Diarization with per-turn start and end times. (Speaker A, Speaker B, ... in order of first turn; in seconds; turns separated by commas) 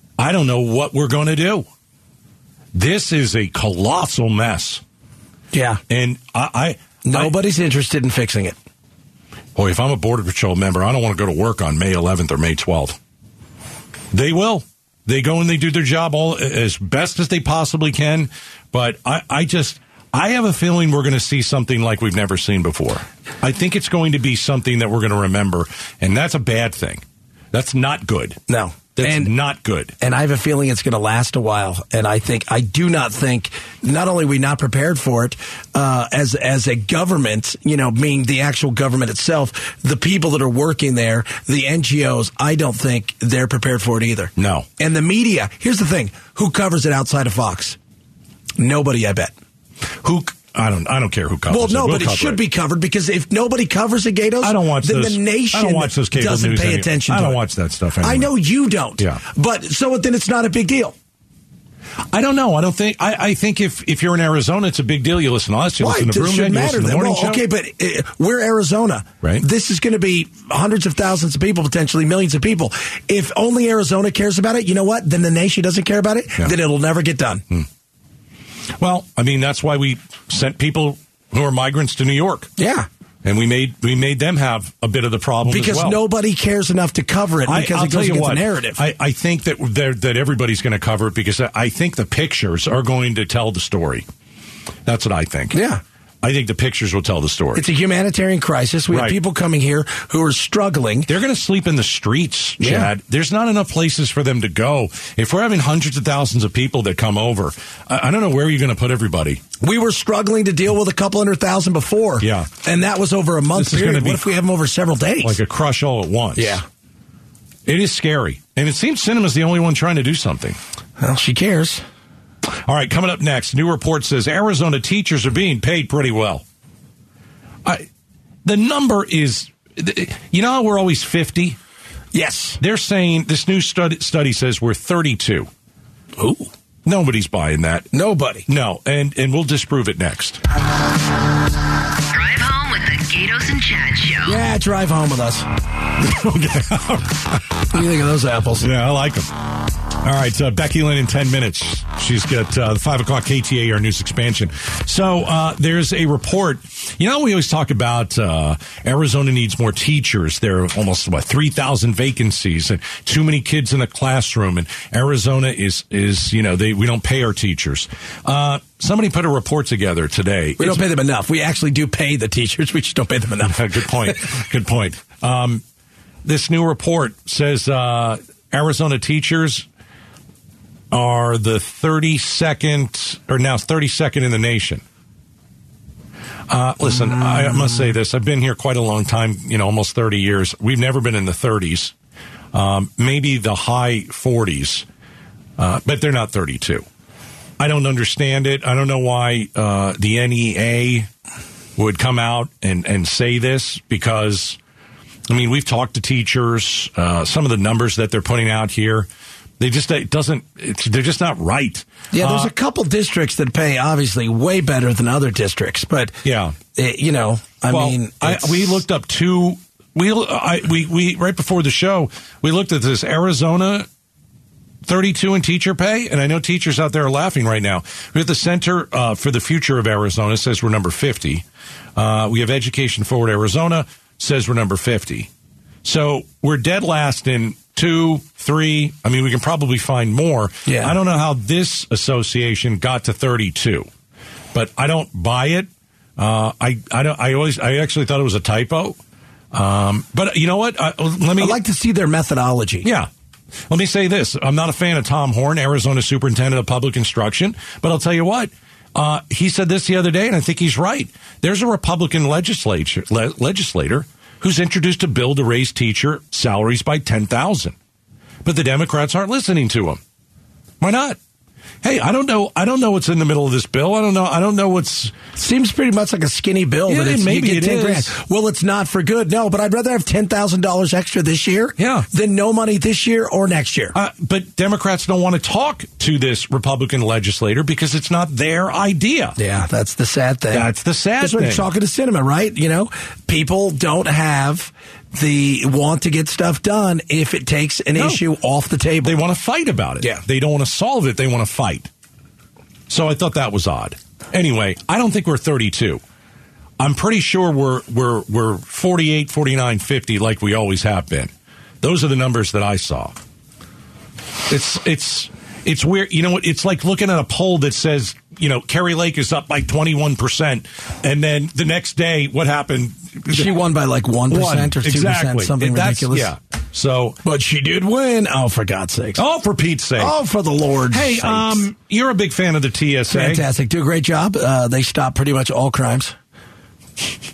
Speaker A: 0.2-1.7, Speaker A: 2.7-4.8, Speaker B: 5.5-5.8, Speaker A: 5.9-7.3, Speaker B: 7.0-8.6, Speaker A: 9.6-13.0, Speaker A: 14.1-28.4, Speaker B: 28.5-29.3, Speaker A: 28.9-29.9, Speaker B: 30.0-47.8, Speaker A: 44.4-44.7, Speaker B: 48.6-49.3, Speaker A: 50.0-52.4, Speaker B: 51.5-57.4, Speaker A: 54.4-58.3, Speaker B: 58.0-61.0, Speaker A: 62.1-67.4, Speaker B: 65.8-77.5, Speaker A: 78.8-82.5, Speaker B: 82.6-82.9, Speaker A: 83.2-86.0, Speaker B: 85.5-88.8, Speaker A: 87.5-94.0, Speaker A: 94.9-95.6, Speaker B: 95.5-95.8, Speaker A: 96.2-97.7, Speaker B: 97.5-101.1, Speaker A: 98.9-99.2, Speaker A: 101.1-109.4, Speaker B: 102.6-102.9, Speaker B: 109.6-115.4, Speaker A: 112.2-112.5, Speaker A: 113.5-114.3, Speaker A: 115.2-116.6, Speaker B: 116.4-116.7, Speaker A: 117.7-120.6, Speaker B: 121.0-121.8, Speaker A: 122.7-126.4, Speaker A: 128.4-131.6, Speaker B: 132.1-132.6, Speaker A: 132.6-135.5, Speaker B: 136.2-136.5, Speaker A: 136.9-137.9, Speaker B: 137.9-138.5, Speaker A: 138.5-140.4, Speaker C: 142.1-144.4, Speaker B: 144.2-145.4, Speaker A: 146.0-147.8, Speaker B: 147.7-148.7, Speaker A: 148.6-149.3, Speaker A: 150.0-170.8, Speaker B: 170.6-174.2, Speaker A: 173.4-175.6, Speaker A: 176.2-179.7, Speaker A: 180.9-184.8, Speaker A: 186.5-191.9, Speaker B: 186.8-187.9, Speaker A: 192.5-194.9, Speaker A: 195.6-196.9, Speaker A: 197.6-201.1, Speaker A: 201.8-204.6, Speaker A: 205.3-209.1, Speaker A: 209.6-212.5, Speaker B: 212.1-216.2, Speaker A: 216.2-216.6, Speaker B: 216.8-218.8, Speaker A: 217.7-223.9, Speaker A: 224.9-231.4, Speaker A: 232.0-235.3, Speaker A: 235.8-243.9, Speaker B: 240.7-241.0, Speaker A: 244.5-249.0, Speaker A: 249.5-251.6, Speaker B: 251.4-252.9, Speaker A: 253.7-267.8, Speaker A: 268.4-270.0, Speaker A: 270.8-271.2, Speaker A: 271.8-275.2, Speaker B: 275.3-284.0, Speaker A: 276.9-278.1, Speaker A: 281.8-282.1, Speaker A: 283.9-289.4, Speaker B: 289.4-299.2, Speaker A: 290.5-291.6, Speaker A: 298.0-298.2, Speaker A: 299.0-301.9, Speaker A: 302.9-306.0, Speaker A: 306.8-311.3, Speaker A: 311.8-313.1, Speaker A: 314.5-323.5, Speaker B: 323.3-326.3, Speaker A: 324.3-327.2, Speaker B: 327.2-329.2, Speaker A: 329.2-330.1, Speaker B: 330.0-331.6, Speaker A: 330.9-333.4, Speaker B: 333.1-336.1